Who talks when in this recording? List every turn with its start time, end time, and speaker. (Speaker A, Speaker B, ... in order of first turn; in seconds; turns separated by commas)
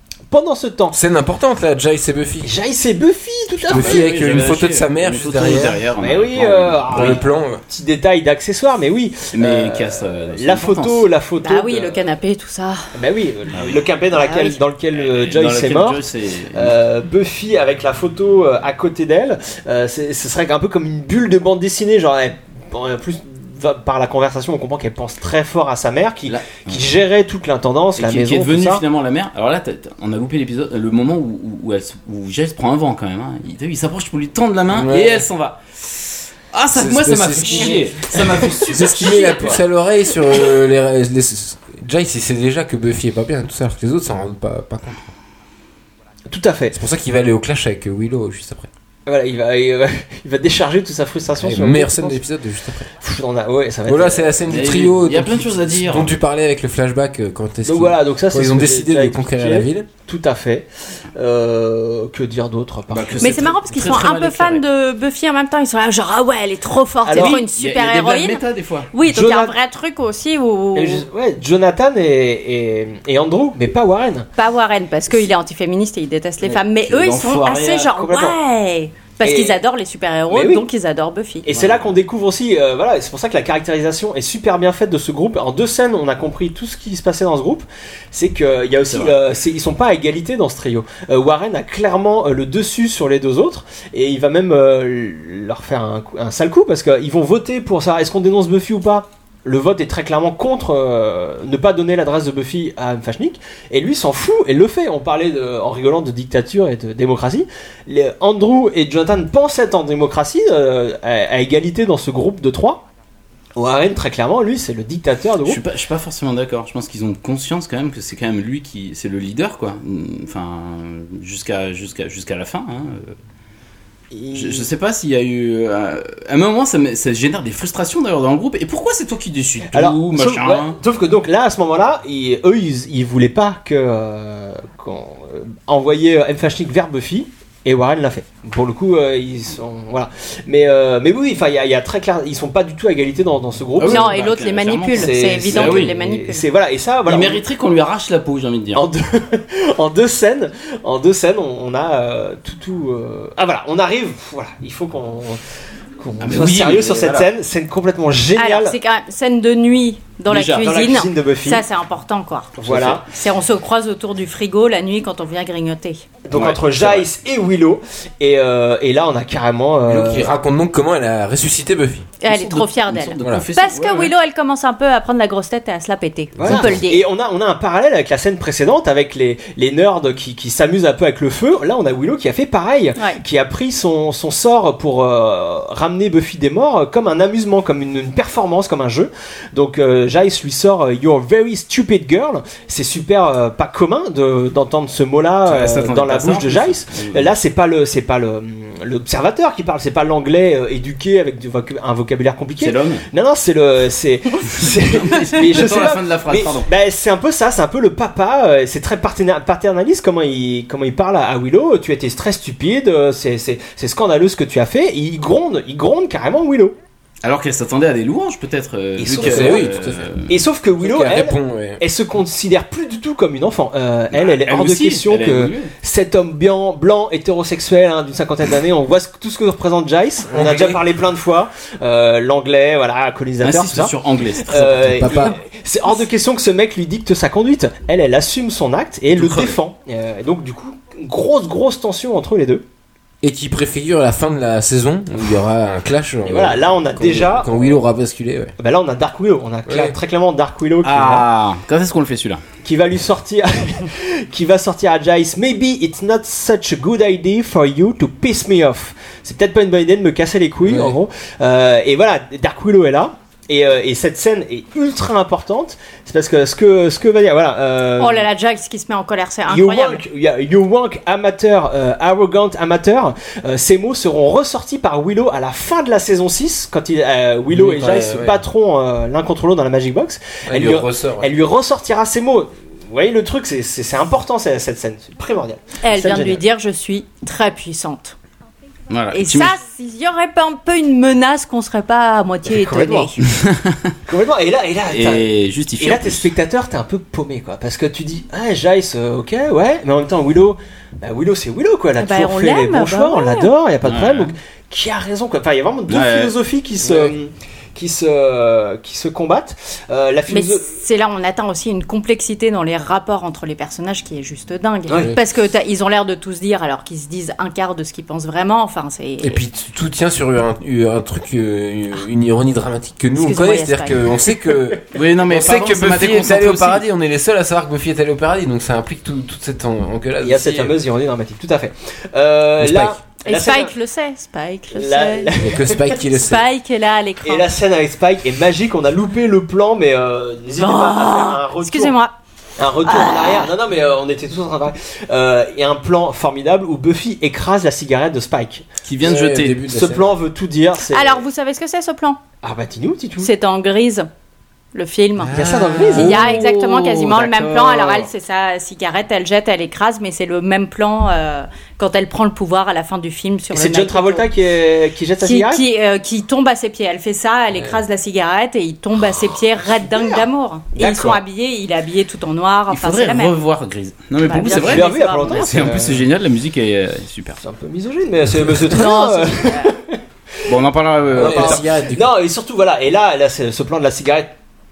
Speaker A: 0.3-1.0, Speaker B: 0.9-2.5, Speaker A: 2.4-4.0, Speaker B: 3.7-5.8, Speaker C: 3.7-7.2, Speaker A: 6.0-12.0, Speaker B: 6.6-7.6, Speaker C: 9.3-11.1, Speaker D: 11.4-12.9, Speaker A: 12.9-28.8, Speaker C: 13.5-13.8, Speaker D: 14.1-14.6, Speaker C: 14.9-16.8, Speaker C: 26.3-26.8, Speaker C: 28.0-39.6, Speaker B: 34.7-35.3, Speaker B: 36.7-45.0, Speaker A: 46.3-46.8, Speaker B: 46.7-48.7, Speaker A: 49.1-52.2, Speaker B: 51.4-52.9, Speaker A: 53.0-54.6, Speaker B: 53.9-59.9, Speaker C: 54.5-56.2, Speaker A: 57.6-63.5, Speaker C: 62.9-64.6, Speaker D: 63.2-71.1, Speaker A: 67.0-67.4, Speaker C: 67.2-68.9, Speaker A: 69.0-69.5, Speaker A: 70.8-74.3, Speaker D: 74.4-81.5, Speaker C: 76.5-77.9, Speaker A: 78.0-78.4, Speaker A: 79.2-79.6, Speaker A: 80.3-80.7, Speaker A: 81.5-112.8, Speaker C: 81.5-82.0, Speaker C: 88.9-89.2, Speaker A: 113.6-115.6, Speaker C: 115.5-123.2, Speaker A: 124.1-124.7, Speaker C: 124.3-130.8, Speaker A: 129.7-144.2, Speaker C: 143.8-145.9, Speaker D: 143.9-146.4, Speaker A: 144.9-147.4, Speaker C: 147.1-148.8, Speaker A: 148.7-155.4, Speaker A: 156.0-158.8, Speaker C: 156.2-157.3, Speaker D: 158.4-166.0, Speaker A: 160.3-161.6, Speaker A: 162.6-163.1, Speaker C: 162.7-163.0, Speaker A: 166.2-170.3, Speaker C: 166.3-167.1, Speaker B: 169.9-172.1, Speaker D: 172.2-177.1, Speaker C: 172.3-174.1, Speaker B: 173.2-173.5, Speaker B: 176.4-176.8, Speaker A: 176.4-216.8, Speaker D: 183.0-183.2, Speaker C: 195.5-197.3, Speaker C: 202.6-203.1, Speaker C: 204.9-206.7, Speaker C: 217.2-220.3, Speaker A: 219.0-242.6, Speaker B: 219.2-220.2, Speaker B: 220.8-221.8, Speaker C: 224.2-225.7, Speaker B: 230.3-230.8, Speaker C: 233.4-235.0, Speaker B: 234.5-235.4, Speaker C: 239.1-239.6, Speaker B: 243.2-248.6, Speaker A: 246.2-247.8, Speaker A: 248.6-251.3, Speaker B: 249.7-250.0, Speaker C: 250.8-252.4, Speaker A: 252.6-268.3, Speaker B: 260.6-261.0, Speaker D: 268.0-270.0, Speaker A: 269.5-286.4, Speaker B: 277.5-278.4, Speaker B: 280.5-281.4, Speaker D: 285.8-288.1, Speaker C: 288.9-289.6, Speaker D: 289.1-293.2, Speaker A: 292.5-293.1, Speaker C: 293.2-293.9, Speaker A: 294.1-310.8, Speaker C: 294.9-296.3, Speaker D: 302.0-303.5, Speaker C: 303.8-304.4, Speaker C: 305.9-306.3, Speaker B: 306.8-307.1, Speaker D: 310.3-319.4, Speaker B: 319.2-330.8, Speaker D: 323.2-324.0, Speaker C: 324.9-326.8, Speaker A: 330.2-333.7, Speaker B: 332.6-333.0, Speaker D: 333.2-335.4, Speaker A: 334.7-336.0, Speaker B: 335.4-336.5, Speaker D: 336.1-337.5, Speaker A: 337.2-341.9, Speaker D: 340.6-342.1, Speaker A: 342.6-348.7, Speaker D: 342.9-343.5, Speaker C: 348.9-349.6, Speaker B: 349.0-350.1, Speaker A: 349.7-351.2, Speaker D: 350.8-352.2, Speaker A: 352.4-353.3, Speaker D: 353.2-354.1, Speaker D: 354.7-355.3, Speaker B: 355.2-356.4, Speaker A: 355.3-356.2, Speaker D: 355.9-364.3, Speaker C: 355.9-358.1, Speaker A: 363.5-365.6, Speaker D: 365.2-373.4, Speaker A: 369.6-371.2, Speaker C: 372.7-377.4, Speaker D: 374.2-375.7, Speaker A: 374.4-376.1, Speaker A: 377.4-380.0, Speaker D: 378.7-379.8, Speaker C: 380.5-381.8, Speaker B: 381.1-382.2, Speaker A: 381.2-384.3